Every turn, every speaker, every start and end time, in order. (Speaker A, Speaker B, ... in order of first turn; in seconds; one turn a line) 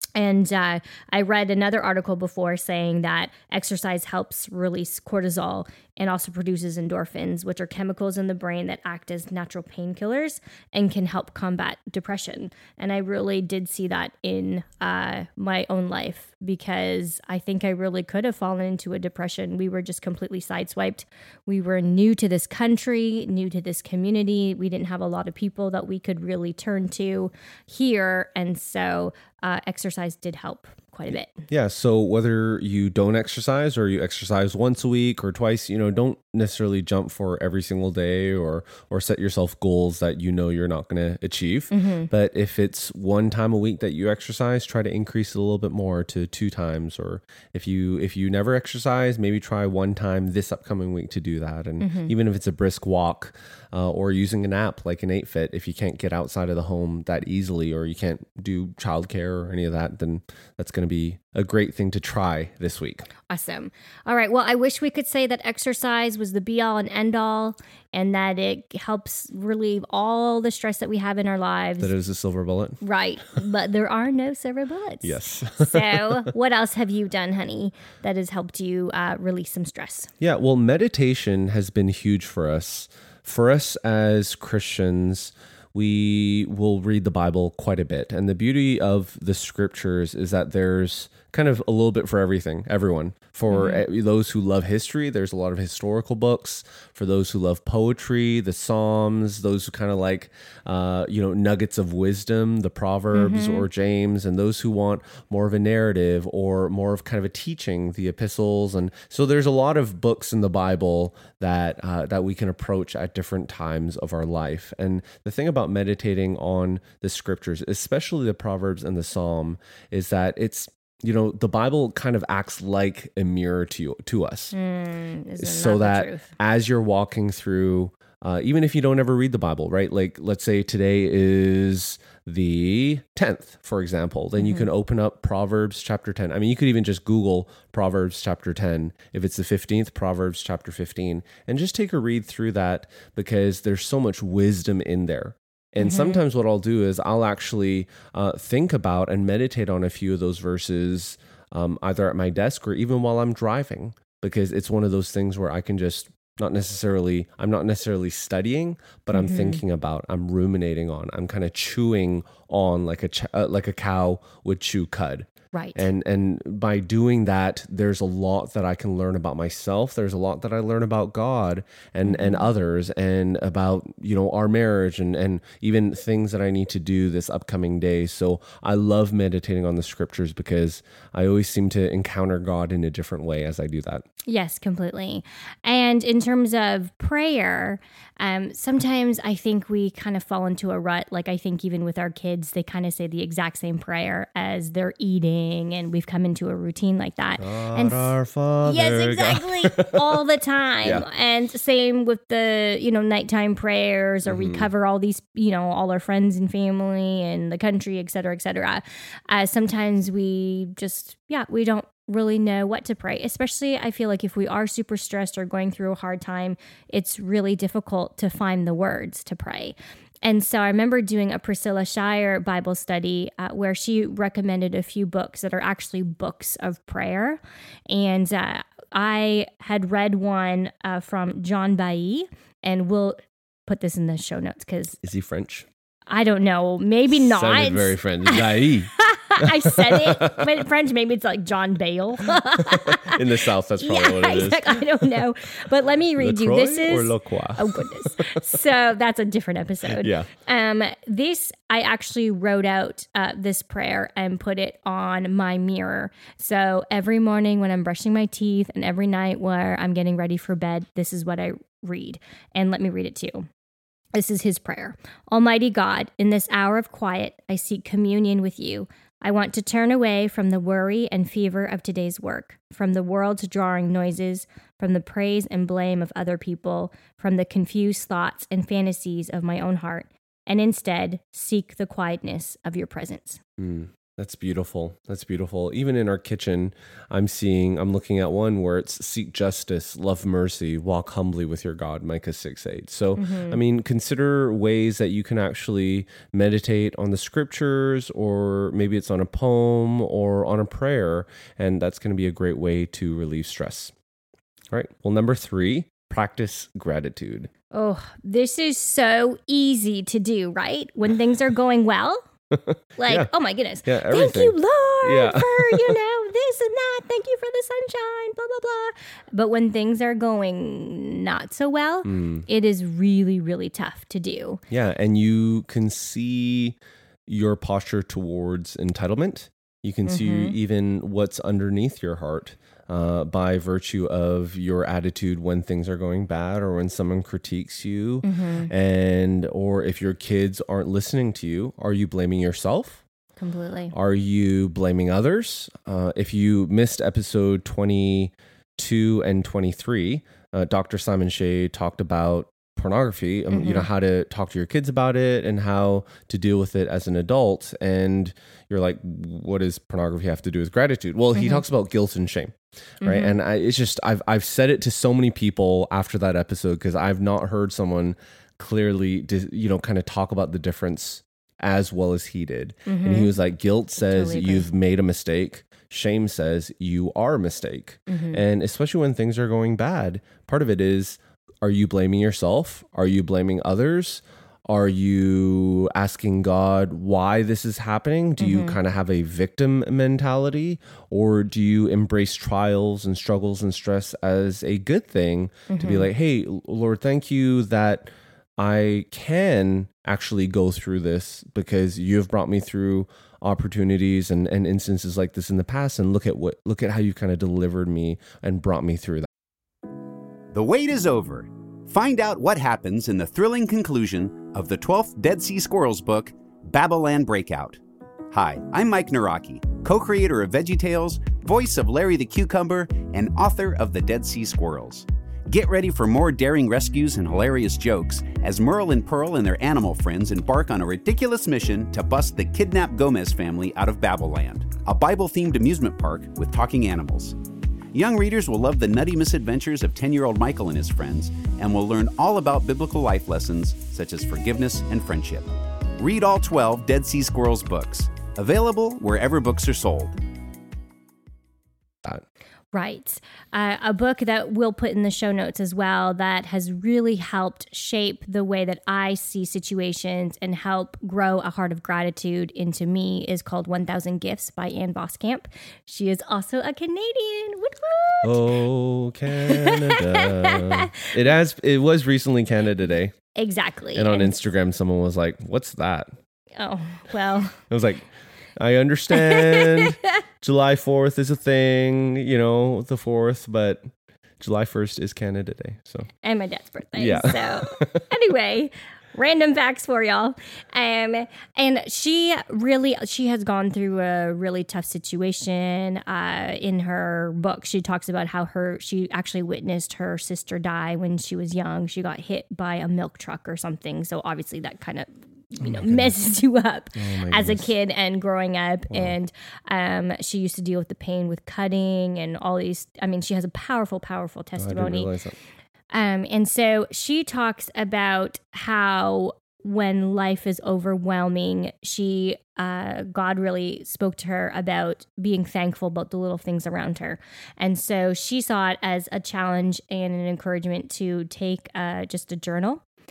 Speaker A: 0.1-31.4
Speaker B: 31.5-63.1
Speaker A: 41.7-42.1
Speaker A: 51.8-52.1
Speaker A: 63.3-71.9
Speaker B: 71.8-72.8
Speaker A: 72.8-80.1
Speaker B: 75.0-76.3
Speaker B: 80.2-124.5
Speaker A: 93.5-93.8
Speaker A: 103.1-103.7
Speaker A: 124.5-126.3
Speaker B: 125.4-184.0
Speaker A: 134.4-134.7
Speaker A: 145.8-146.2
Speaker A: 159.1-159.6
Speaker A: 165.5-165.9
Speaker A: 172.0-172.4
Speaker A: 184.2-198.1
Speaker B: 197.4-200.0
Speaker A: 198.6-235.0
Speaker B: 204.2-204.7
Speaker B: 235.0-235.7
Speaker A: 236.1-243.2
Speaker B: 237.1-240.4
Speaker B: 242.6-244.9
Speaker A: 243.8-263.5
Speaker B: 246.2-248.4
Speaker B: 249.9-250.3
Speaker A: 264.1-283.4
Speaker B: 283.6-303.9
Speaker A: 293.2-293.6
Speaker B: 304.7-307.5
Speaker A: 307.7-312.2
Speaker B: 312.5-313.3
Speaker A: 313.0-324.6
Speaker B: 313.8-316.0
Speaker B: 322.0-322.5
Speaker B: 324.7-343.0
Speaker A: 330.1-330.5
Speaker A: 338.2-338.7
Speaker A: 343.4-343.9
Speaker B: 343.9-409.3
Speaker A: 353.5-353.9
Speaker A: 361.4-361.6
Speaker A: 363.0-363.3
Speaker A: 372.9-373.3
Speaker A: 374.0-374.6
Speaker A: 378.1-378.4
Speaker A: 388.4-388.8
Speaker A: 395.7-396.1
Speaker C: 410.5-437.4
Speaker C: 437.9-450.1
Speaker A: 452.7-468.4
Speaker B: 468.2-473.1
Speaker A: 469.3-470.9
Speaker A: 473.3-474.3
Speaker B: 473.9-476.1
Speaker A: 476.6-477.6
Speaker B: 477.7-478.1
Speaker B: 478.6-483.9
Speaker A: 479.2-479.9
Speaker B: 484.4-486.1
Speaker A: 486.2-515.1
Speaker B: 487.0-488.0
Speaker B: 505.6-506.1
Speaker B: 506.9-507.7
Speaker B: 508.9-509.1
Speaker B: 514.6-515.3
Speaker A: 515.9-532.8